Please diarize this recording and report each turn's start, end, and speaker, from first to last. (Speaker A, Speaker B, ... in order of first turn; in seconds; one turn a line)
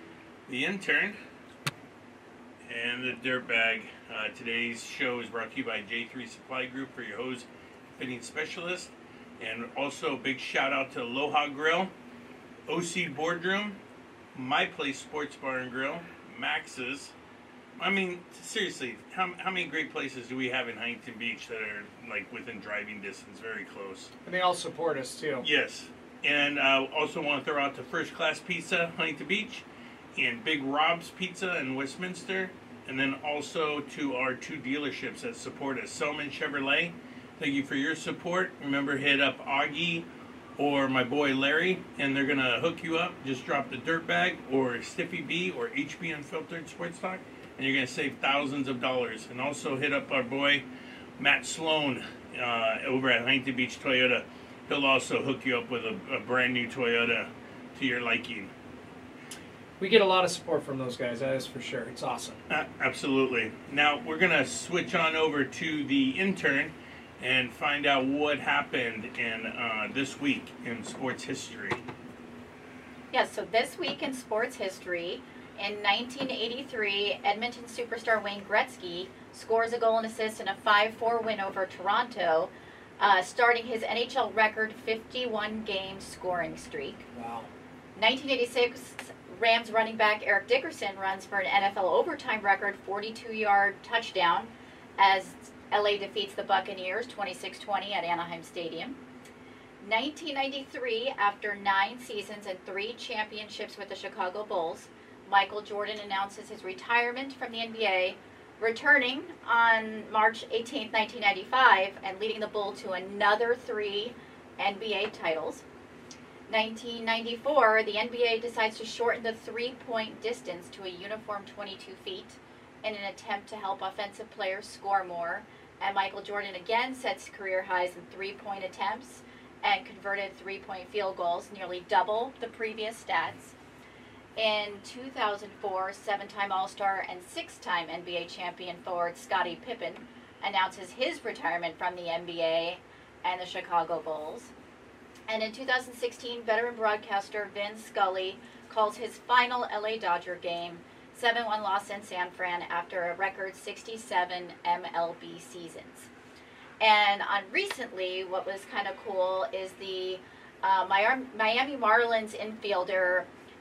Speaker A: 0.5-1.2
Speaker A: 2.7-11.9
Speaker A: 12.7-13.8
Speaker A: 14.3-17.1
Speaker A: 17.8-24.1
Speaker B: 24.2-25.5
Speaker A: 25.4-40.1
Speaker A: 40.6-50.6
Speaker A: 51.2-58.5
Speaker B: 59.8-62.4
Speaker A: 62.5-71.8
Speaker C: 73.1-87.0
Speaker B: 87.1-87.5
Speaker C: 88.0-99.0
Speaker C: 99.8-115.6
Speaker C: 116.5-133.6
Speaker C: 134.4-144.5
Speaker C: 145.3-156.1
Speaker C: 156.8-163.3